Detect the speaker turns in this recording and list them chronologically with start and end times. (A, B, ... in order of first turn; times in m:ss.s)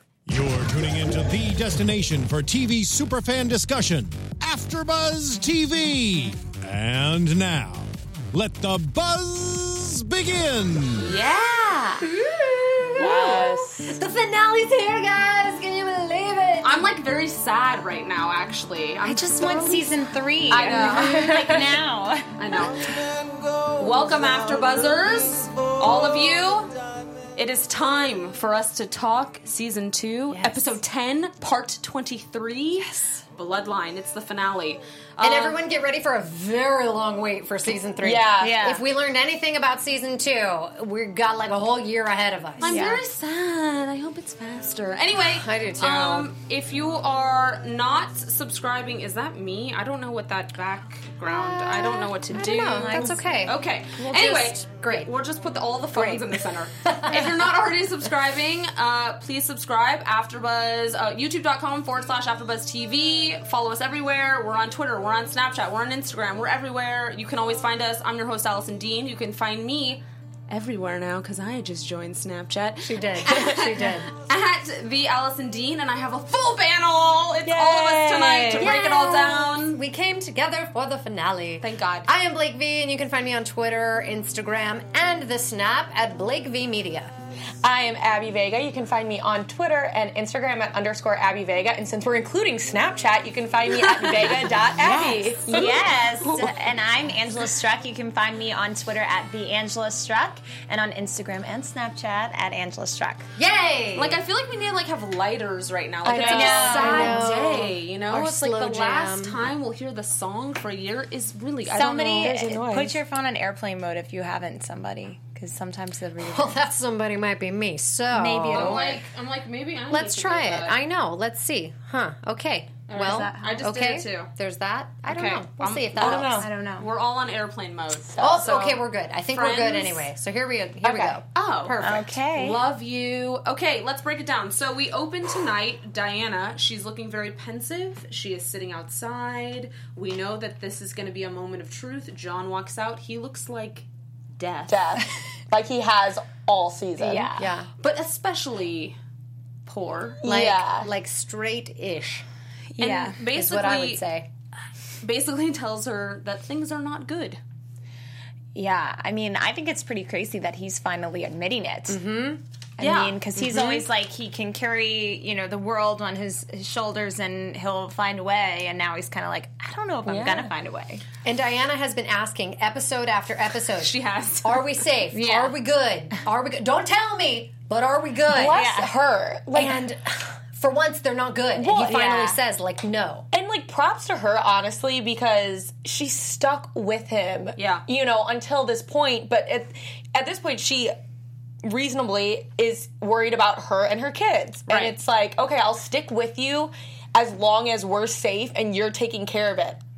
0:00.3-0:11.2 A
0:11.0-0:12.0 B
0:12.0-0:16.9 C
0:13.0-0:14.0 D
0:16.6-0:19.9 E
0:19.0-0:22.4 B
0:20.5-0:21.3 E
0:20.8-0:21.7 D
0:22.4-0:23.0 E
0:23.7-0:26.8 E
0:27.4-0:35.6 E
0:30.3-0:30.8 C
0:35.2-0:43.0 C
0:38.0-0:38.7 D
0:38.4-0:38.8 B
0:42.6-1:19.8 E
0:42.7-0:43.0 B
0:45.2-0:46.3 C
0:51.2-0:55.1 C
0:52.6-0:53.3 B
0:55.9-0:57.5 C
1:12.8-1:14.1 C
1:17.5-1:18.7 B
1:18.6-1:27.1 C
1:21.6-1:22.1 E
1:27.6-1:35.8 D
1:34.8-1:35.4 C
1:34.9-1:43.3 B
1:36.0-1:36.5 E
1:43.4-1:44.2 C
1:44.0-1:52.5 E
1:46.0-1:47.2 D
1:46.1-1:47.2 B
1:46.1-1:49.4 C
1:51.7-1:56.6 B
1:52.2-1:53.0 D
1:56.2-1:59.0 C
1:58.1-1:59.0 B
1:58.5-2:00.8 E
1:59.9-2:06.5 C
2:02.9-2:04.3 E
2:03.0-2:03.6 B
2:05.1-2:10.1 E
2:06.0-2:06.5 D
2:06.4-2:06.9 B
2:08.1-2:08.4 D
2:08.2-2:12.2 C
2:10.8-2:11.2 D
2:11.3-2:11.8 E
2:11.8-2:12.6 B
2:12.3-2:25.0 E
2:24.7-2:27.3 D
2:27.0-2:27.5 B
2:27.4-2:27.7 C
2:27.8-2:29.0 E
2:29.7-2:30.2 E
2:30.2-2:30.9 D
2:30.2-2:32.3 C
2:32.8-2:33.2 B
2:32.8-2:34.0 E
2:33.3-2:34.3 C
2:35.0-2:37.4 E
2:38.6-2:42.0 B
2:41.9-2:42.4 C
2:42.8-2:51.0 B
2:42.8-2:43.2 E
2:43.4-2:43.8 C
2:50.1-2:50.5 D
2:51.2-2:58.6 C
2:53.8-2:54.8 E
2:55.1-2:55.5 B
2:58.3-2:59.8 D
2:58.5-2:58.9 B
2:59.5-3:03.3 C
3:01.6-3:02.0 D
3:01.9-3:02.4 B
3:03.3-3:10.9 D
3:07.6-3:07.9 E
3:11.6-3:19.8 D
3:14.7-3:14.9 E